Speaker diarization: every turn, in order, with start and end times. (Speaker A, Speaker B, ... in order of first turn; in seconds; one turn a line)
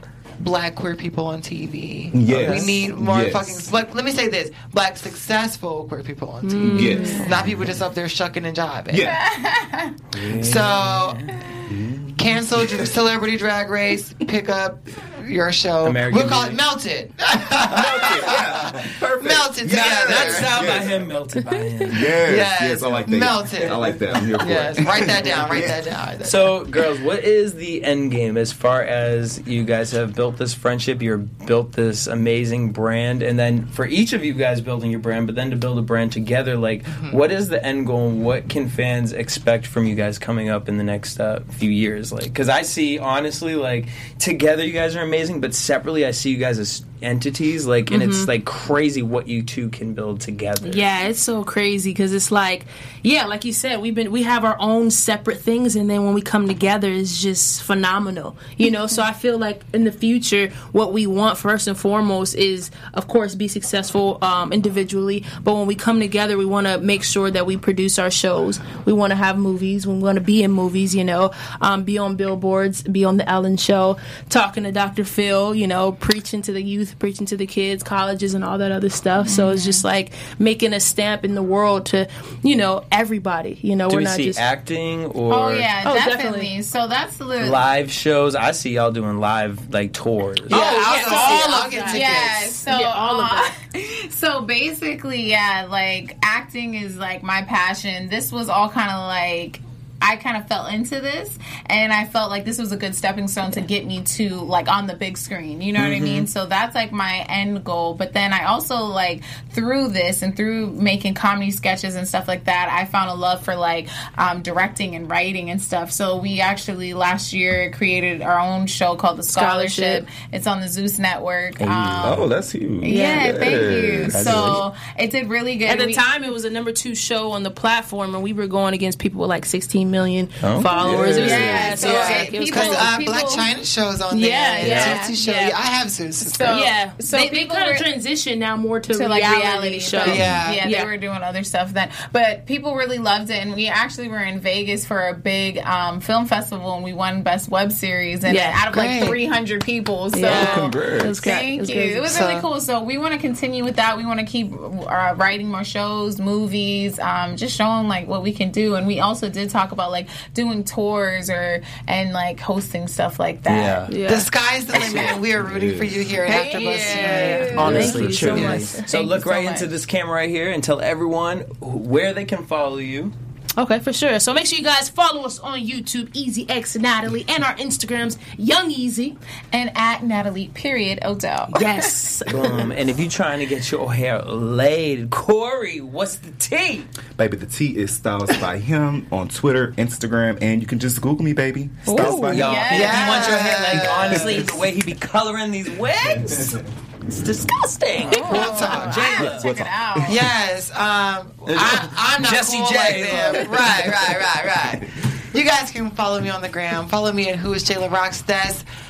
Speaker A: 0.4-9.2
Speaker B: 2.1-3.7
Speaker C: 6.4-7.3
Speaker B: 6.6-7.8
Speaker B: 8.9-9.2
Speaker D: 9.0-10.0
Speaker E: 10.1-11.5
Speaker A: 10.3-11.3
Speaker B: 11.7-12.9
Speaker A: 12.2-20.8
Speaker E: 15.8-16.6
Speaker B: 17.6-21.2
Speaker E: 19.6-22.2
Speaker B: 21.9-25.9
Speaker A: 22.1-26.6
Speaker E: 23.6-25.7
Speaker E: 26.2-51.0
Speaker A: 36.9-37.2
Speaker C: 47.9-48.3
Speaker C: 50.6-84.5
Speaker D: 79.2-79.8
Speaker E: 83.9-85.8
Speaker D: 85.3-87.6
Speaker C: 85.8-86.5
Speaker E: 87.4-90.7
Speaker C: 90.5-93.5
Speaker A: 90.5-92.6
Speaker D: 90.5-126.1
Speaker E: 105.8-106.3
Speaker C: 119.3-120.1
Speaker B: 121.6-124.6
Speaker E: 121.7-122.2
Speaker C: 122.8-123.8
Speaker E: 124.1-124.6
Speaker C: 125.7-132.9
Speaker E: 130.4-131.1
Speaker B: 130.6-131.8
Speaker D: 131.1-133.5
Speaker A: 131.7-136.6
Speaker C: 134.1-135.6
Speaker E: 134.6-135.0
Speaker D: 134.7-135.2
Speaker D: 136.3-137.9
Speaker C: 136.4-140.9
Speaker D: 138.9-163.9
Speaker A: 140.1-140.7
Speaker B: 140.1-140.4
Speaker C: 148.3-148.7
Speaker A: 148.7-149.2
Speaker C: 150.1-152.2
Speaker B: 150.3-151.3
Speaker A: 152.1-152.5
Speaker E: 163.5-164.0
Speaker C: 163.9-164.3
Speaker A: 164.1-168.6
Speaker B: 164.7-166.2
Speaker C: 166.2-169.2
Speaker D: 166.3-169.7
Speaker E: 167.0-173.1
Speaker C: 173.6-179.2
Speaker D: 179.5-182.0
Speaker C: 181.5-182.7
Speaker E: 182.3-186.9
Speaker B: 187.2-193.0
Speaker C: 191.9-192.6
Speaker D: 191.9-193.4
Speaker E: 192.0-199.5
Speaker A: 192.7-194.6
Speaker B: 193.6-194.5
Speaker D: 198.1-200.2
Speaker A: 198.1-199.2
Speaker B: 198.9-200.3
Speaker A: 200.1-208.6
Speaker E: 201.5-204.2